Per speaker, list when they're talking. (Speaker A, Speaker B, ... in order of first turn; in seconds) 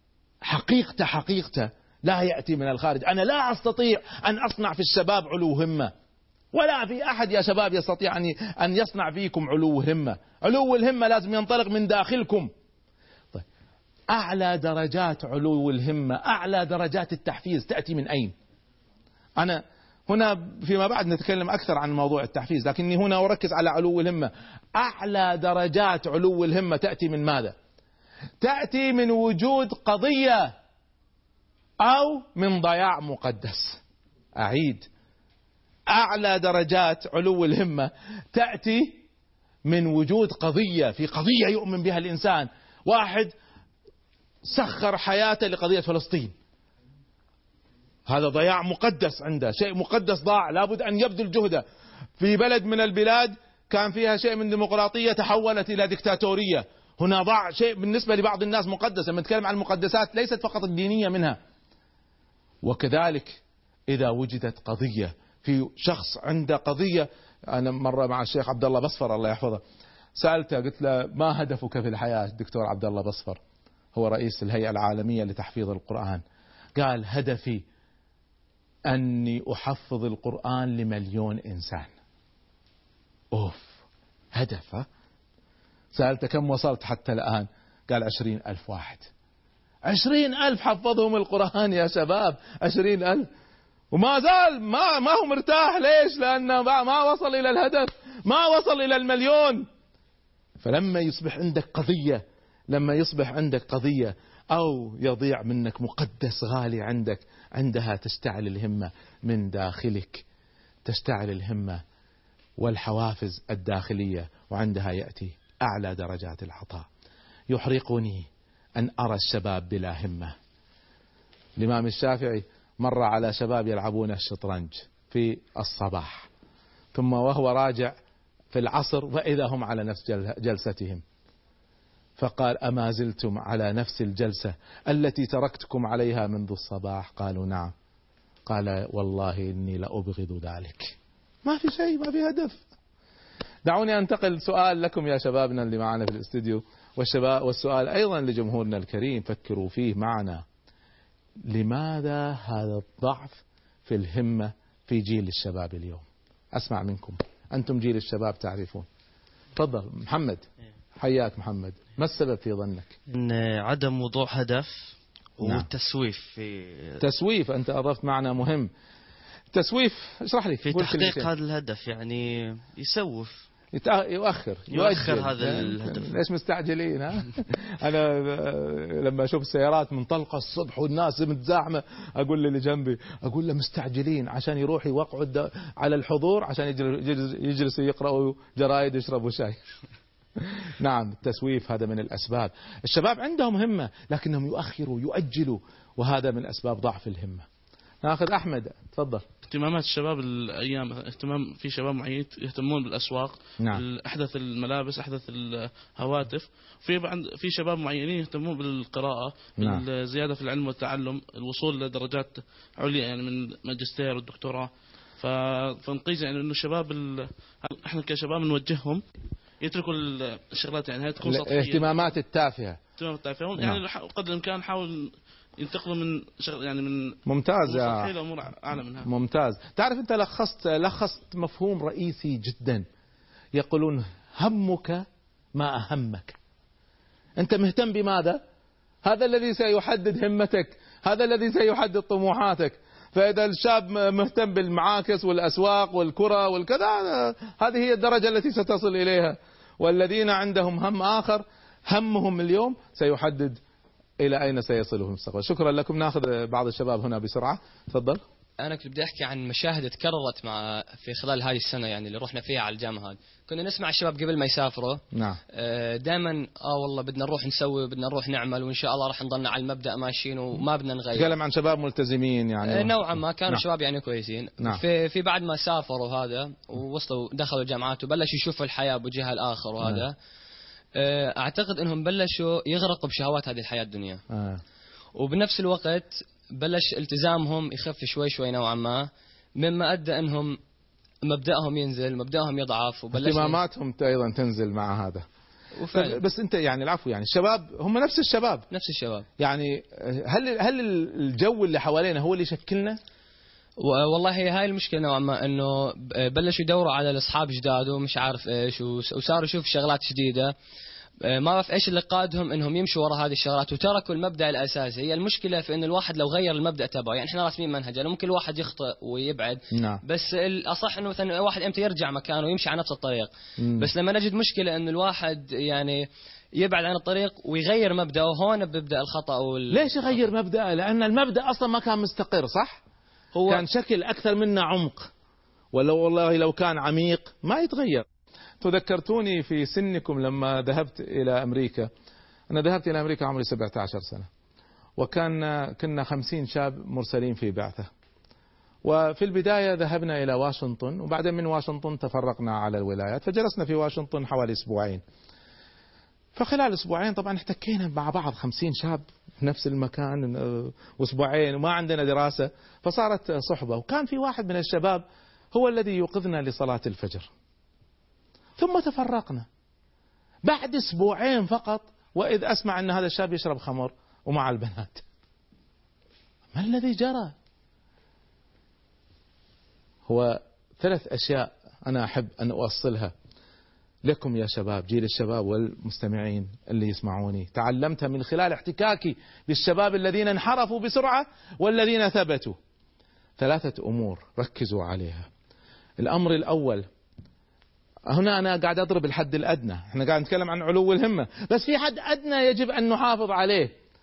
Speaker A: 0.5-5.9, 6.5-12.5, 14.1-18.3, 19.4-27.6, 28.4-30.5, 31.8-33.8, 34.4-34.9, 35.9-39.0, 39.7-43.3, 44.5-46.3, 48.1-51.6, 52.2-61.4, 62.6-69.6, 70.2-73.4, 74.0-76.2, 76.8-77.6, 78.9-81.9, 83.3-83.8, 84.3-84.9, 85.9-89.1, 89.9-93.3, 93.9-99.7, 100.6-110.2, 110.8-111.8, 112.6-116.9, 117.5-120.3, 121.6-126.3, 126.9-128.0, 128.5-131.0, 132.2-137.7, 138.5-142.6, 143.7-150.4, 151.5-158.9, 159.6-160.4, 161.0-163.0, 167.0-168.7, 169.5-171.3, 173.7-189.6, 190.8-197.4, 198.0-199.2, 209.6-209.8, 221.2-222.8, 227.3-228.1, 229.1-232.8, 233.6-235.0, 235.6-236.4, 237.4-238.4, 239.1-253.6, 254.2-258.2, 265.1-265.4, 271.1-273.0, 284.3-284.6, 293.1-295.2, 295.9-298.7, 299.4-303.0, 319.7-320.0, 323.6-323.9, 329.7-332.8, 333.5-335.1, 335.7-338.1, 338.6-341.9, 342.5-344.3, 345.0-347.9, 348.9-355.0, 356.4-365.0, 365.5-367.3, 368.6-369.5, 370.5-375.0, 376.5-377.3, 380.1-383.1, 384.1-392.6, 393.4-395.3, 396.0-396.9, 398.1-403.7
Speaker B: 163.1-167.0, 170.7-173.4, 174.7-176.1
Speaker C: 199.5-219.0, 219.6-222.1, 223.0-227.2, 227.7-229.1
Speaker D: 258.6-265.0, 265.5-271.3, 272.6-280.1, 281.0-284.2, 285.2-290.6, 291.2-293.6, 295.8-296.2, 298.7-299.3, 303.8-310.5, 311.2-326.1, 326.6-330.3, 333.4-333.6